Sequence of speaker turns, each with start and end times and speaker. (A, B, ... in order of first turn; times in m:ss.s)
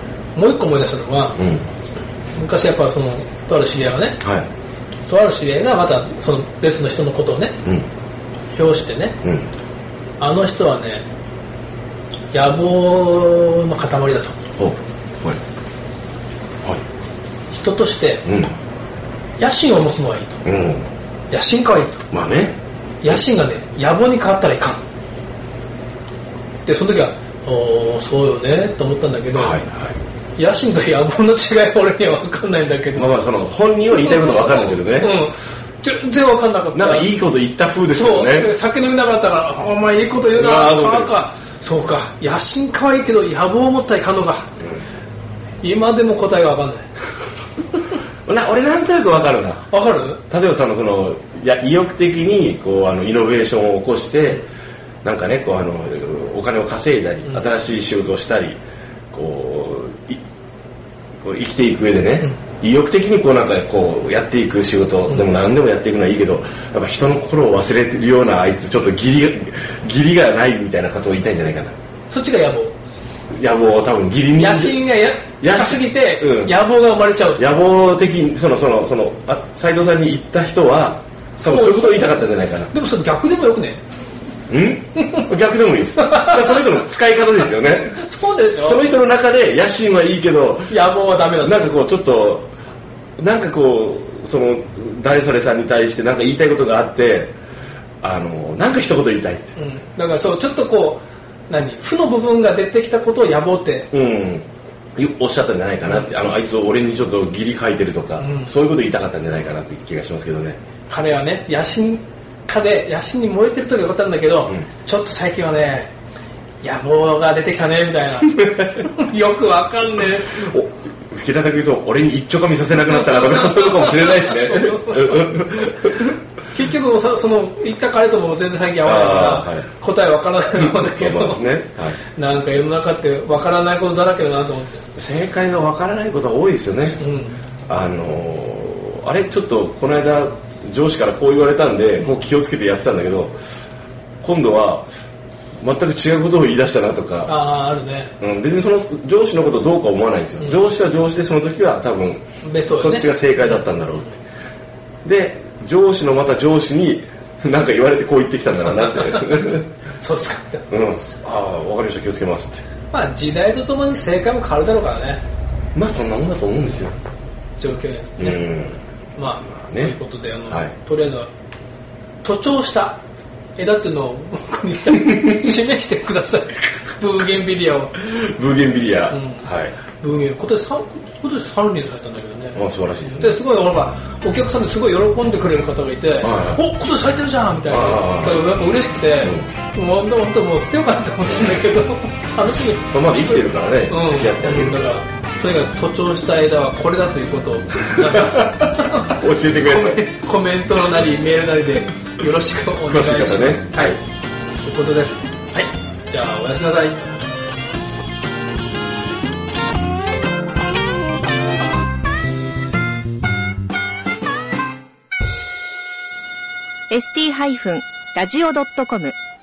0:00.4-0:01.4 A
0:01.4-0:01.7 B
0:02.4-0:04.2 A
0:04.2-0:04.5 B
0:05.1-0:07.6 A
0:08.5-0:09.2 A
0:09.2-0:09.5 B
0:10.2-0:11.0 A
0:12.3-0:14.4 A
0:14.6-0:15.4 B
0:17.5-0:18.3 A
0:18.2-0:18.5 B
0:19.4-0:20.4 A
0:20.4-0:20.9 B
0:21.3-0:22.0 A
0:22.1-0:22.6 B
0:23.0-0:24.8 A
0:26.6-0:29.6 A
0:29.3-0:30.0 B
0:30.4-0:33.1 A
0:32.9-0:35.2 B
0:34.1-0:37.1 A
0:36.7-0:38.5 B
0:37.9-0:44.5 A
0:40.3-0:41.1 B
0:45.6-0:46.9 A
0:48.3-0:49.7 B
0:49.7-0:50.2 A
0:50.3-0:54.4 B
0:55.0-0:58.6 B
0:59.1-1:00.2 B
1:01.2-1:11.8 B
1:12.1-1:12.8 A
1:13.3-1:16.5 B
1:14.4-1:17.4 A
1:17.4-1:22.7 B
1:21.4-1:23.8 A
1:24.5-1:28.0 B
1:26.0-1:26.7 A
1:27.7-1:28.8 A
1:28.6-1:32.5 B
1:30.7-1:31.6 A
1:33.2-1:37.3 B
1:38.0-1:39.6 B
1:39.6-1:43.9 A
1:43.9-1:50.6 B
1:48.2-1:48.5 A
1:50.9-1:55.9 A
1:56.6-2:00.4 A
2:00.2-2:06.2 B
2:02.9-2:05.7 A
2:06.5-2:11.4 A
2:08.8-2:09.7 B
2:10.5-2:12.0 B
2:12.2-2:14.8 A
2:15.0-2:17.0 B
2:17.0-2:17.4 A
2:17.7-2:23.3 B
2:24.2-2:24.9 B
2:25.6-2:27.3 B
2:27.3-2:28.1 A
2:28.2-2:34.2 B
2:32.4-2:33.2 A
2:35.0-2:39.7 B
2:40.0-2:40.6 A
2:40.7-2:42.6 B
2:42.9-2:45.2 A
2:45.8-2:47.0 B
2:47.6-2:48.5 A
2:48.2-2:50.0 B
2:49.2-2:51.3 A
2:50.5-2:50.7 B
2:52.2-2:53.0 A
2:53.6-2:58.0 A
2:58.0-2:59.8 B
2:59.1-2:59.5 A
3:00.0-3:24.0 A
3:02.6-3:03.4 B
3:06.2-3:06.6 B
3:07.7-3:08.6 B
3:09.2-3:09.5 B
3:12.9-3:14.8 B
3:18.0-3:20.0 B
3:22.8-3:24.0 B
3:24.6-3:27.0 A
3:36.9-3:39.2 C